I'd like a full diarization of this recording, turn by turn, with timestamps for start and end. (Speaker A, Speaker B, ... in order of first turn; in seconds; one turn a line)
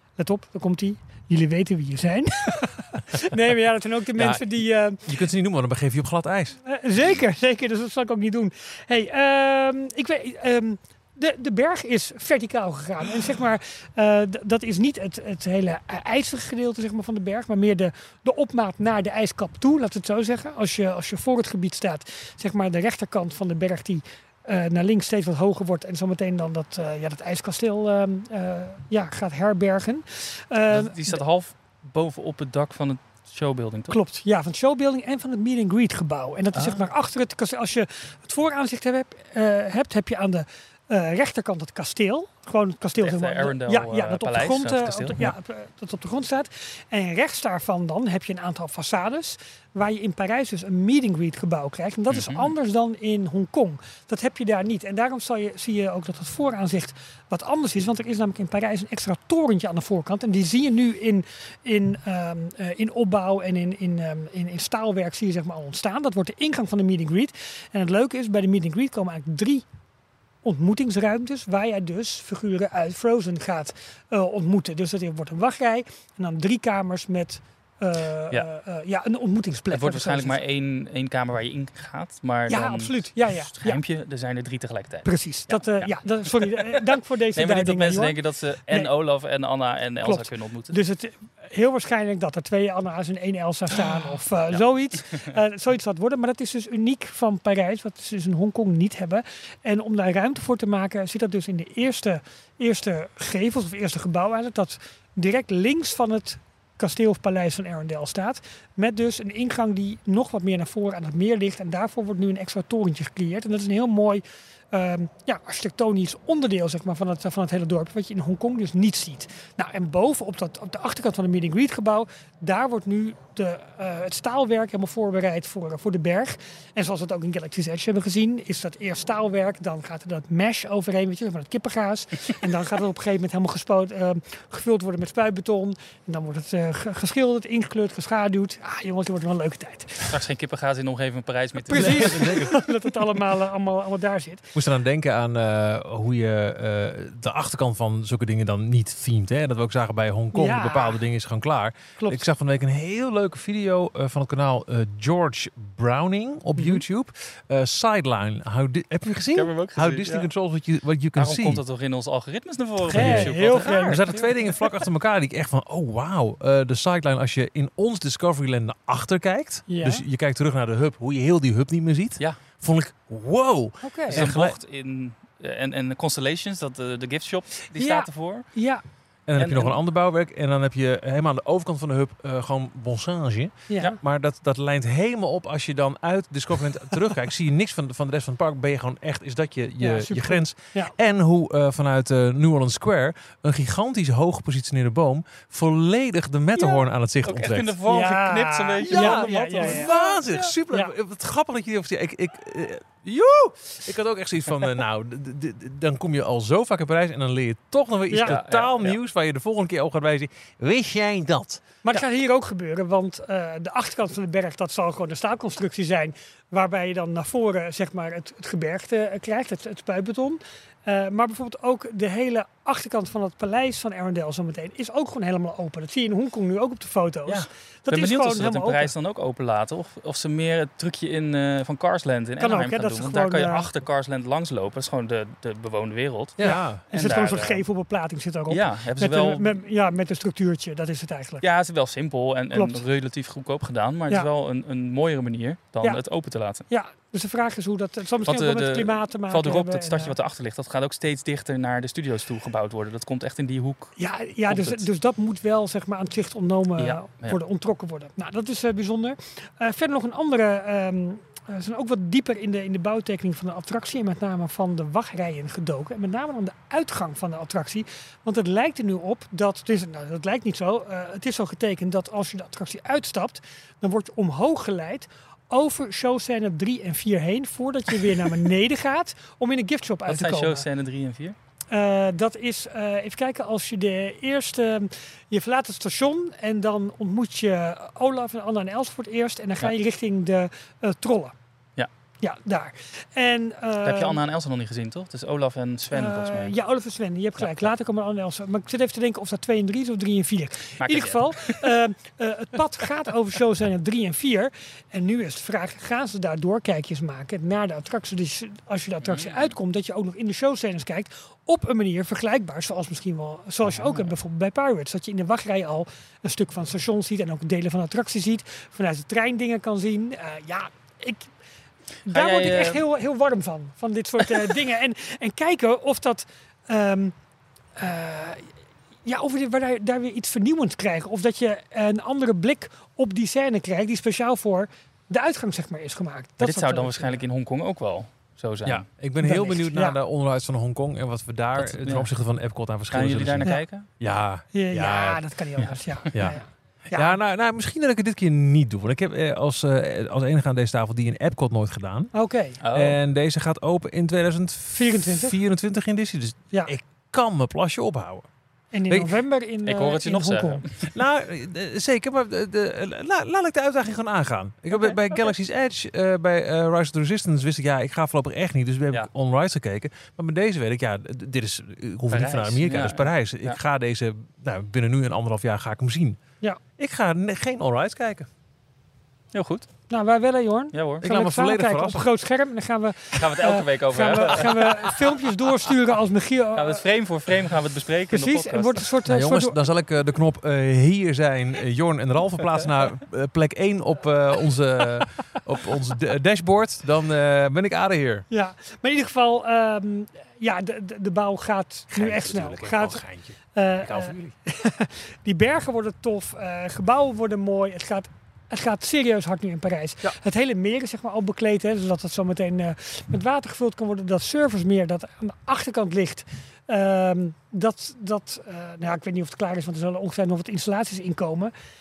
Speaker A: 0.1-5.1
Speaker B: 4.1-4.5
Speaker B: 5.0-6.6
Speaker A: 6.6-31.2
Speaker C: 30.7-34.0
Speaker A: 33.9-69.6
Speaker C: 36.5-36.9
Speaker C: 43.0-45.4
Speaker C: 52.1-52.5
Speaker A: 70.4-80.4
Speaker C: 79.7-86.8
Speaker A: 82.5-83.8
Speaker A: 85.0-88.2
Speaker C: 87.3-90.8
Speaker A: 90.0-140.1
Speaker C: 94.5-95.3
Speaker C: 140.1-142.4
Speaker A: 141.7-144.5
Speaker B: 141.7-142.7
Speaker B: 144.5-161.6
Speaker A: 150.3-151.0
Speaker A: 152.0-152.3
Speaker C: 159.3-160.3
Speaker C: 161.2-164.3
Speaker B: 162.9-174.6
Speaker A: 162.9-164.3
Speaker A: 169.7-170.0
Speaker A: 173.8-174.2
Speaker C: 174.1-178.6
Speaker A: 177.8-178.8
Speaker B: 179.3-197.8
Speaker C: 179.4-179.8
Speaker A: 183.7-184.0
Speaker A: 189.8-190.9
Speaker C: 197.2-200.0
Speaker A: 197.9-200.9
Speaker B: 198.8-211.7
Speaker A: 208.1-208.4
Speaker C: 208.2-209.0
Speaker A: 211.8-228.9
Speaker C: 227.3-237.6
Speaker A: 232.4-233.7
Speaker B: 236.4-236.8
Speaker A: 236.4-241.4
Speaker C: 238.5-239.5
Speaker C: 241.4-246.7
Speaker A: 242.5-242.8
Speaker A: 246.7-250.1
Speaker C: 248.2-254.9
Speaker A: 254.0-280.6
Speaker C: 256.8-257.4
Speaker C: 280.1-281.4
Speaker A: 281.7-291.3
Speaker A: 292.2-294.2
Speaker C: 293.8-296.5
Speaker A: 295.9-321.3
Speaker C: 297.4-297.6
Speaker C: 300.8-301.7
Speaker C: 309.0-309.5
Speaker C: 313.6-314.1
Speaker A: 322.1-327.1
Speaker C: 322.1-322.8
Speaker A: 327.8-328.5
Speaker A: 329.0-337.2
Speaker C: 336.4-338.9
Speaker B: 338.6-345.2
Speaker A: 339.2-340.0
Speaker C: 341.6-342.1
Speaker C: 342.9-343.9
Speaker A: 344.5-347.2
Speaker C: 345.6-346.3
Speaker B: 346.1-358.3
Speaker A: 352.1-352.6
Speaker C: 352.6-353.0
Speaker A: 354.7-355.4
Speaker A: 358.7-360.6
Speaker C: 359.6-360.9
Speaker B: 360.9-376.2
Speaker C: 372.1-373.6
Speaker B: 376.8-378.3
Speaker C: 379.3-379.7
Speaker A: 379.9-386.9
Speaker C: 380.7-381.1
Speaker B: 381.0-382.1
Speaker C: 383.1-385.1
Speaker C: 386.5-388.9
Speaker A: 388.1-389.6
Speaker B: 389.1-398.2
Speaker A: 398.3-421.5
Speaker B: 401.9-404.3